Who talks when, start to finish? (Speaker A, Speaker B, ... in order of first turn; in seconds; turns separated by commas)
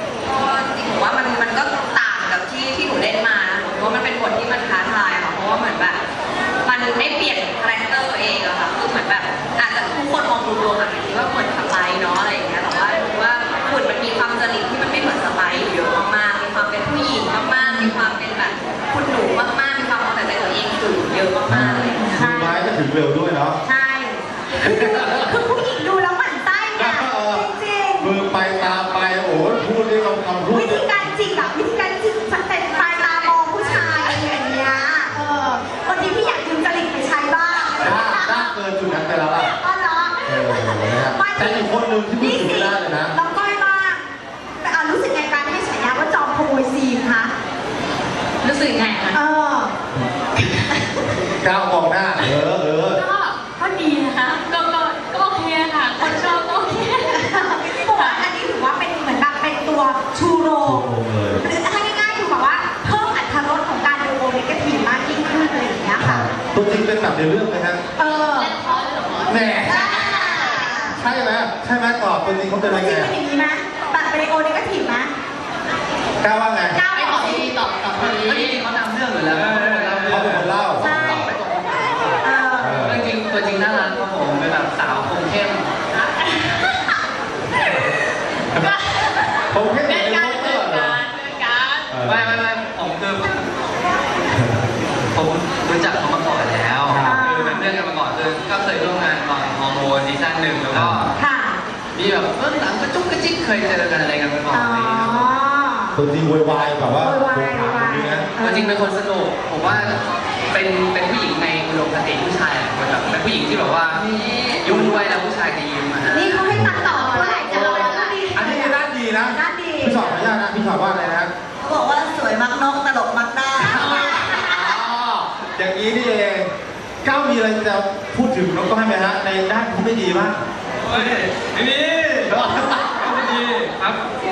Speaker A: 0.3-6.0, Speaker A: 6.6-22.1, Speaker B: 17.6-17.9, Speaker C: 21.5-23.6, Speaker B: 21.8-22.5, Speaker B: 23.6-28.1, Speaker C: 24.6-25.3, Speaker C: 26.8-27.4, Speaker C: 28.0-30.9, Speaker B: 30.5-38.5, Speaker C: 33.7-34.2, Speaker C: 35.1-35.5, Speaker C: 37.8-39.5, Speaker B: 39.6-44.0, Speaker C: 40.3-43.1, Speaker B: 44.6-47.3, Speaker A: 48.4-49.2, Speaker B: 49.1-49.7, Speaker C: 51.2-53.0, Speaker A: 53.0-58.3, Speaker B: 57.1-60.8, Speaker C: 60.6-61.4, Speaker B: 61.4-66.3, Speaker C: 66.0-67.8, Speaker B: 68.0-68.5, Speaker A: 68.0-70.8, Speaker C: 69.3-73.1, Speaker B: 69.6-71.0, Speaker B: 72.6-75.1, Speaker C: 76.2-76.8, Speaker B: 76.7-77.5, Speaker A: 76.9-78.6, Speaker D: 78.0-82.2, Speaker E: 79.3-80.4, Speaker C: 80.1-81.2, Speaker B: 80.8-81.3, Speaker B: 82.2-82.9, Speaker C: 82.6-83.0, Speaker D: 82.8-85.7, Speaker C: 89.5-91.0, Speaker A: 89.8-91.9, Speaker C: 91.9-92.4, Speaker D: 92.0-93.5, Speaker C: 94.3-94.7, Speaker D: 95.1-101.1, Speaker C: 96.9-97.3, Speaker B: 97.0-97.7, Speaker C: 100.7-101.0, Speaker B: 101.2-101.6, Speaker D: 102.0-105.3, Speaker B: 104.5-106.0, Speaker C: 106.0-108.3, Speaker B: 107.0-108.8, Speaker D: 108.4-110.0, Speaker C: 109.7-110.0, Speaker D: 110.5-114.0, Speaker A: 114.0-114.6, Speaker D: 114.6-116.5, Speaker B: 116.1-118.8, Speaker C: 116.5-121.3, Speaker A: 117.0-118.2, Speaker B: 119.3-120.2, Speaker F: 121.6-124.4, Speaker C: 123.6-126.5, Speaker B: 123.7-124.7, Speaker C: 127.0-131.3, Speaker E: 130.8-132.4, Speaker C: 132.3-132.9, Speaker E: 133.0-134.0